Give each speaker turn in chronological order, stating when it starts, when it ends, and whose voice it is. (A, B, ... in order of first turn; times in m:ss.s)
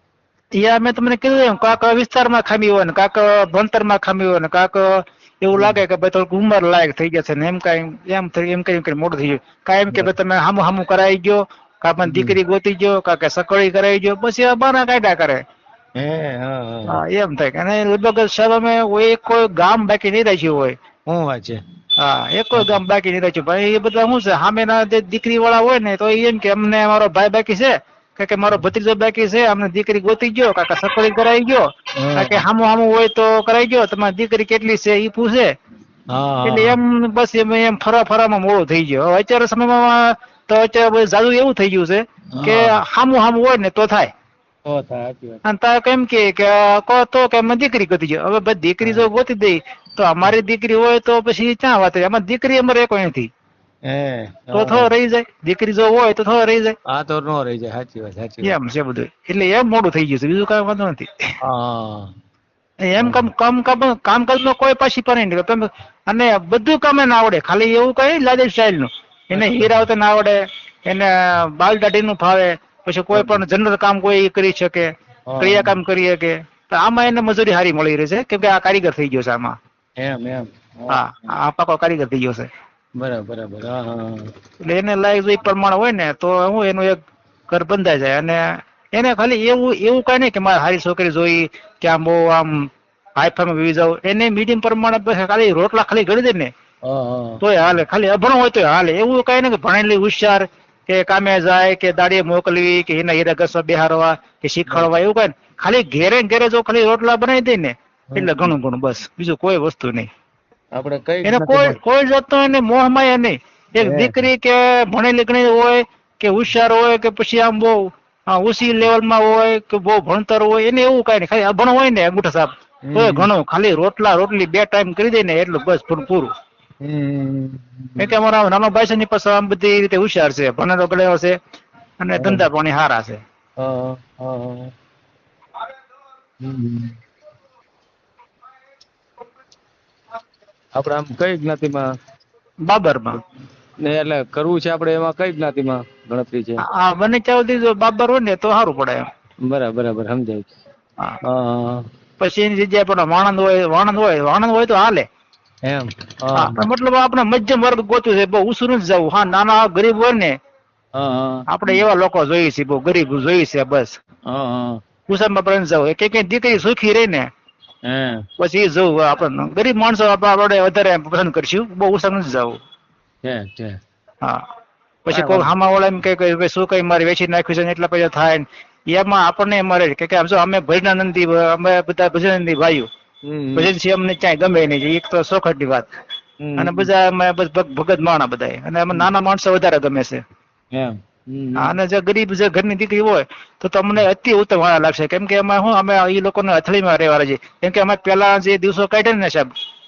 0:00.6-0:15.4 A
0:05.5-0:05.8 B
0:12.0-0:12.4 B
0:16.0-0:17.0 B
0:16.9-0:20.8 A
0:21.1-0:21.6 B
0:22.0-0:35.5 A
0:32.0-0:32.4 B
0:36.1-0:36.8 B
0:36.4-0:44.1 A
0:42.3-0:42.8 B
0:44.6-0:45.4 B
0:45.4-0:53.3 A
0:48.8-0:49.1 B
0:53.9-0:54.9 B
0:54.5-0:56.8 A
0:56.9-0:58.6 B
0:58.4-1:01.1 A
1:01.5-1:02.1 B
1:02.9-1:19.6 A
1:03.0-1:03.3 B
1:09.3-1:09.8 B
1:13.1-1:13.4 B
1:15.3-1:15.8 B
1:20.0-1:21.3 B
1:20.9-1:22.5 A
1:23.0-1:24.3 B
1:24.6-1:27.0 A
1:27.5-1:28.4 A
1:28.9-1:36.5 A
1:36.8-1:37.4 B
1:37.4-1:50.1 A
1:48.1-1:48.5 B
1:50.7-1:51.8 B
1:51.2-2:06.3 A
1:53.8-1:54.3 B
2:02.9-2:03.3 B
2:06.8-2:08.2 B
2:08.0-2:11.3 A
2:12.0-2:13.2 A
2:12.2-2:12.4 B
2:13.6-2:14.7 B
2:16.4-2:17.0 B
2:20.7-2:21.8 B
2:22.6-2:23.2 A
2:23.8-2:26.6 B
2:26.7-2:29.0 A
2:29.5-2:30.5 B
2:31.2-2:31.8 B
2:32.2-2:35.0 A
2:35.6-2:36.6 B
2:36.3-2:40.3 A
2:41.0-2:41.8 B
2:41.5-2:44.0 A
2:44.3-2:44.8 B
2:45.1-2:47.3 A
2:47.9-2:48.2 B
2:48.4-2:52.6 A
2:53.2-2:53.8 B
2:55.0-3:02.9 A
2:55.1-2:55.5 B
3:03.2-3:03.7 B
3:03.6-3:05.9 A
3:06.4-3:06.9 B
3:06.6-3:10.2 A
3:10.7-3:11.8 B
3:11.6-3:19.5 A